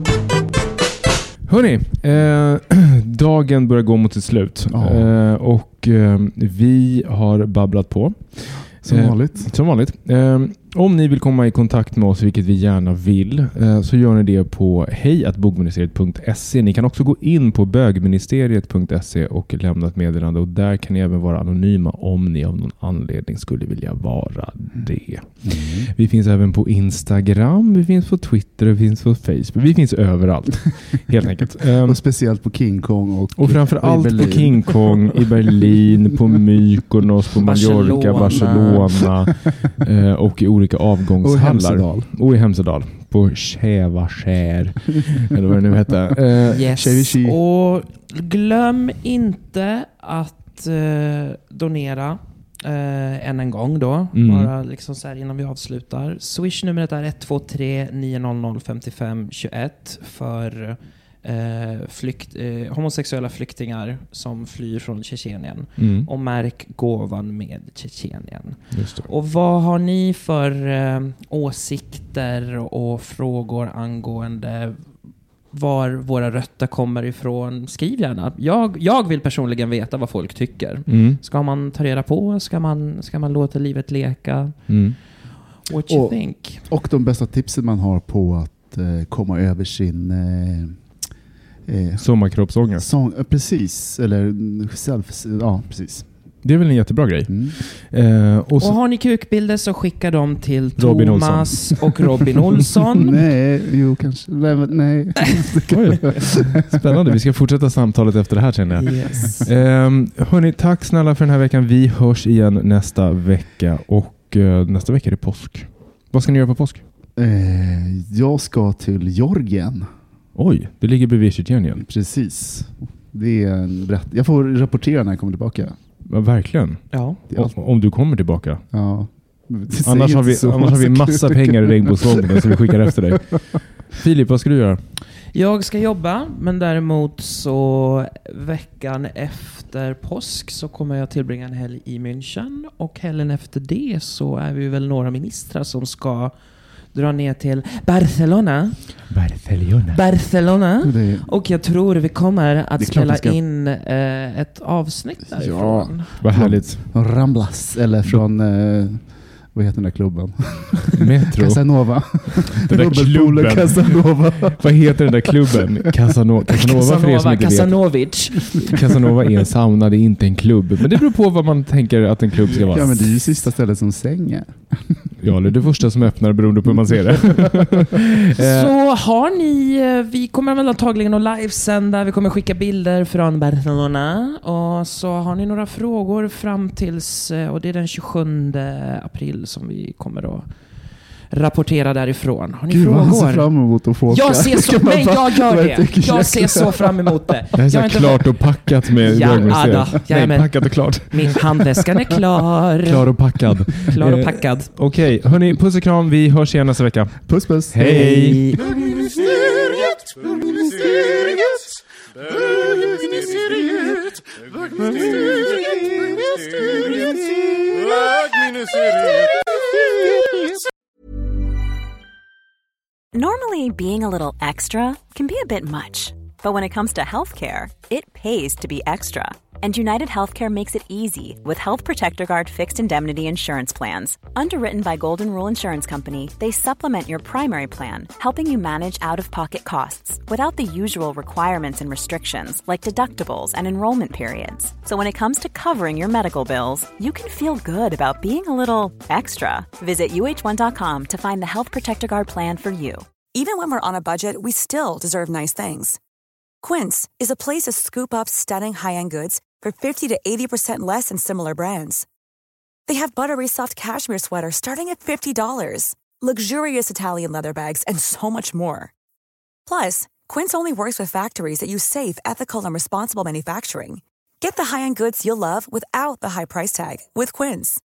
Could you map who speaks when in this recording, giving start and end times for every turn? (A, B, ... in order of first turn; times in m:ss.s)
0:01.4-0:32.0 A
0:04.7-0:05.1 B
0:08.8-0:09.5 B
0:25.4-0:25.9 B
0:31.8-0:35.2 B
0:33.4-0:46.7 A
0:37.4-0:39.0 C
0:41.2-0:42.1 B
0:46.5-1:26.7 C
0:46.7-0:47.4 B
0:54.1-0:54.5 A
1:05.8-1:06.1 A
1:08.7-1:09.1 A
1:20.9-1:21.2 A
1:24.7-1:25.0 A
1:25.9-1:31.0 B
1:31.7-1:36.1 B
1:32.0-1:32.8 A
1:36.4-1:38.8 A
1:37.3-1:37.6 B
1:38.6-1:43.2 C
1:40.8-1:41.9 A
1:43.0-1:46.2 B
1:45.7-1:56.8 A
1:48.8-1:49.5 C
1:57.2-1:59.9 B
2:00.4-2:01.8 A
2:01.8-2:05.8 B
2:06.0-2:08.6 A
2:06.9-2:07.2 C
2:08.7-2:12.5 B
2:09.8-2:14.8 A
2:15.3-2:29.1 C
2:29.1-2:30.0 A
2:29.9-2:36.2 C
2:30.8-2:31.3 B
2:32.8-2:33.4 B
2:35.4-2:45.6 B
2:36.2-2:37.0 A
2:41.0-2:53.2 A
2:46.5-2:48.9 C
2:52.6-2:55.1 B
2:55.2-2:58.7 A
2:58.4-3:23.2 C
3:12.7-3:17.3 B
3:17.6-3:21.8 A
3:22.8-3:28.4 A
3:23.7-3:24.7 C
3:27.3-3:31.6 B
3:27.8-3:28.6 C
3:32.3-3:40.5 B
3:43.1-4:13.1 D
4:13.3-4:16.0 E
4:16.6-4:22.1 E
4:22.9-4:28.9 E
4:29.7-4:37.8 E